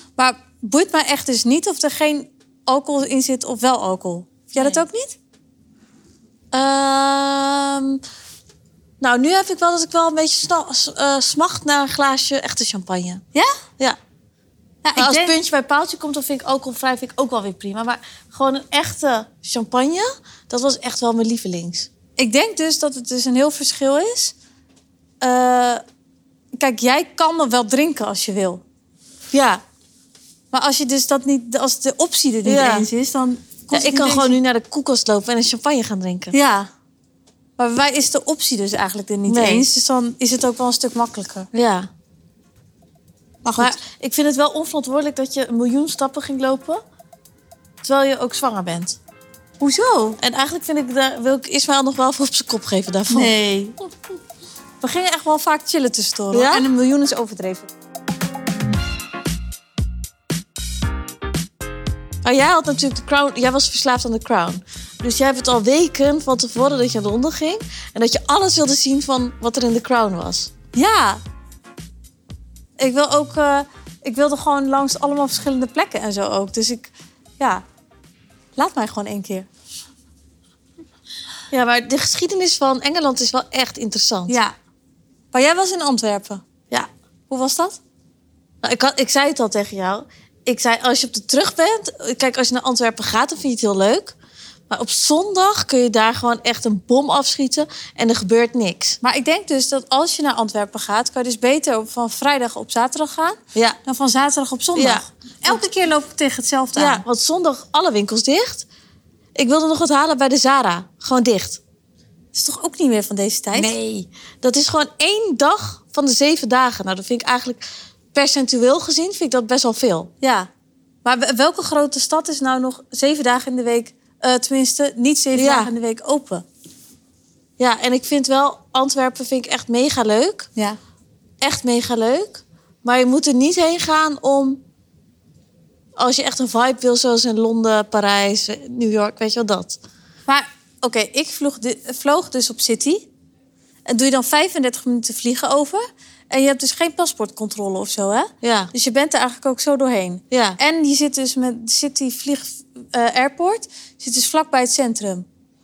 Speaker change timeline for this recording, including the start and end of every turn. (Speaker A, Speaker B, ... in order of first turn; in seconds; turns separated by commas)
Speaker A: 0.2-5.2, Speaker B: 4.6-4.8, Speaker B: 6.5-8.0, Speaker B: 9.0-13.2, Speaker A: 14.8-15.3, Speaker B: 15.0-21.9, Speaker A: 22.2-24.3, Speaker A: 25.2-25.8, Speaker A: 26.6-28.6, Speaker B: 29.3-29.6, Speaker A: 30.5-34.4, Speaker B: 32.5-32.9, Speaker B: 33.7-36.4, Speaker A: 36.3-36.7, Speaker A: 37.6-41.5, Speaker B: 39.3-39.7, Speaker B: 41.5-41.9, Speaker A: 43.4-43.8, Speaker B: 43.6-46.8, Speaker B: 47.8-49.0, Speaker A: 49.6-50.2, Speaker B: 50.2-53.3, Speaker A: 53.1-53.8, Speaker A: 54.8-57.7, Speaker B: 56.3-56.7, Speaker B: 62.2-70.5, Speaker A: 70.7-71.2, Speaker A: 72.8-77.7, Speaker A: 78.6-79.5, Speaker B: 81.5-84.4, Speaker A: 84.3-84.5, Speaker A: 85.3-86.4, Speaker A: 87.3-87.8, Speaker B: 88.6-94.2, Speaker B: 94.7-99.0, Speaker A: 99.0-107.0, Speaker B: 104.8-105.6, Speaker B: 106.8-108.7, Speaker B: 109.3-111.6, Speaker A: 112.3-113.7, Speaker B: 113.5-120.1, Speaker A: 120.2-120.5, Speaker A: 121.0-126.5, Speaker B: 125.3-125.7, Speaker B: 127.6-130.5, Speaker B: 131.4-134.6, Speaker B: 136.0-139.8, Speaker A: 140.3-143.1, Speaker A: 143.9-155.3, Speaker B: 148.4-148.7, Speaker B: 150.3-150.6